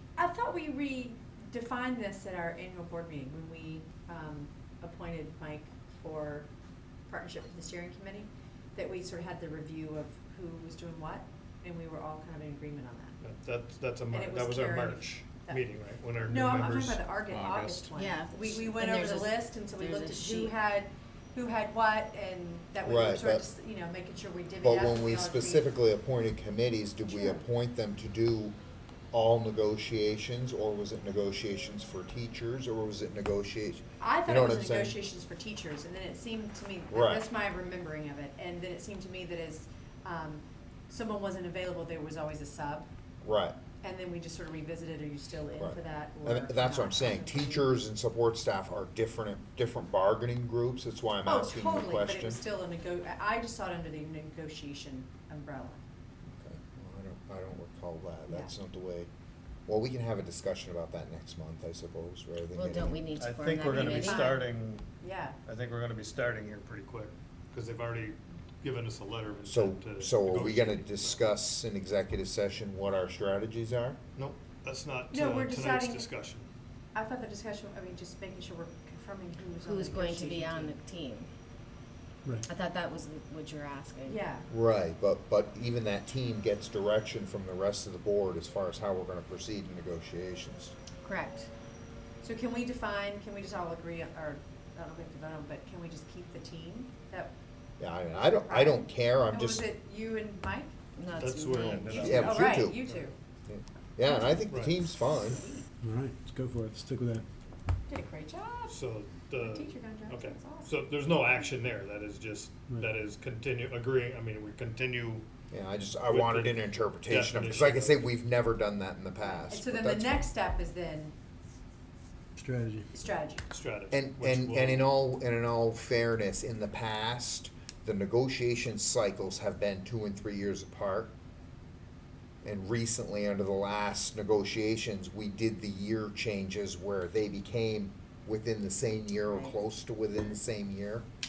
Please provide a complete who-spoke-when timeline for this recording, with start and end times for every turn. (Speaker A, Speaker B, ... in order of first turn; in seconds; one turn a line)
Speaker A: 0.1-6.5
Speaker A: 7.1-13.2
Speaker B: 13.2-17.9
Speaker A: 14.1-15.6
Speaker A: 16.3-25.7
Speaker C: 17.9-20.6
Speaker D: 22.8-23.4
Speaker D: 24.6-28.6
Speaker A: 27.1-27.4
Speaker D: 29.1-35.0
Speaker A: 34.0-42.9
Speaker D: 36.9-37.2
Speaker D: 43.2-43.6
Speaker A: 43.8-47.7
Speaker D: 45.6-52.4
Speaker A: 51.2-55.8
Speaker D: 56.3-59.1
Speaker A: 58.3-58.5
Speaker D: 59.7-63.0
Speaker C: 62.5-64.3
Speaker B: 63.2-64.9
Speaker A: 63.6-64.4
Speaker A: 65.0-65.4
Speaker B: 65.5-71.3
Speaker D: 69.4-74.0
Speaker B: 74.2-76.5
Speaker A: 75.1-76.1
Speaker A: 76.9-80.8
Speaker C: 79.6-81.3
Speaker C: 82.5-84.2
Speaker A: 84.0-84.5
Speaker D: 84.5-90.7
Speaker C: 91.0-91.5
Speaker A: 92.2-97.3
Speaker D: 97.8-99.7
Speaker A: 98.5-100.7
Speaker C: 101.0-102.4
Speaker B: 101.1-102.6
Speaker D: 101.9-102.9
Speaker A: 102.0-103.1
Speaker D: 103.5-105.4
Speaker B: 104.5-104.8
Speaker A: 105.2-105.7
Speaker E: 105.8-107.2
Speaker A: 107.9-108.8
Speaker B: 108.7-115.2
Speaker A: 109.4-110.7
Speaker D: 115.5-120.2
Speaker B: 116.1-118.1
Speaker A: 119.5-121.1
Speaker E: 122.3-122.9
Speaker A: 122.9-123.4
Speaker B: 123.5-124.9
Speaker D: 123.9-131.1
Speaker D: 132.4-141.1
Speaker C: 139.3-139.5